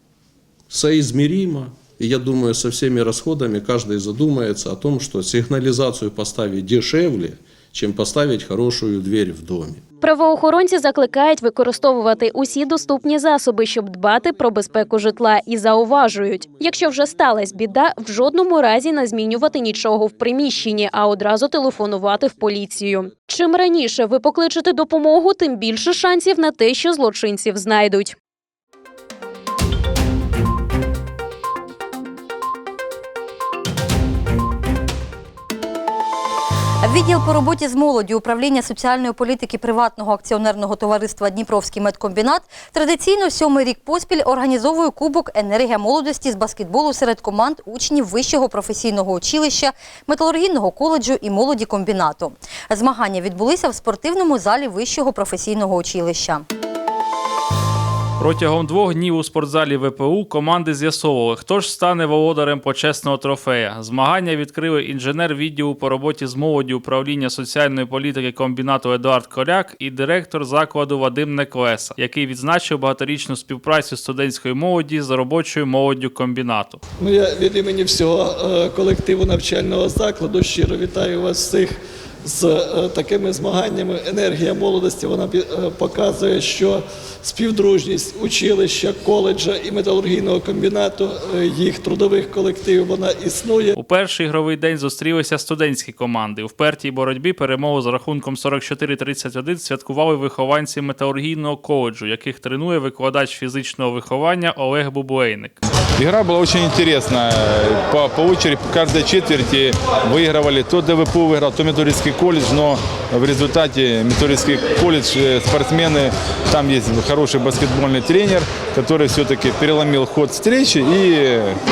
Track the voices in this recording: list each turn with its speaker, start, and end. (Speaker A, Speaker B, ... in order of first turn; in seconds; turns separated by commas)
Speaker A: 0.7-9.8, Speaker B: 10.0-28.1, Speaker C: 36.8-56.4, Speaker D: 58.2-76.8, Speaker E: 77.0-93.7, Speaker D: 93.7-105.6, Speaker F: 106.0-121.5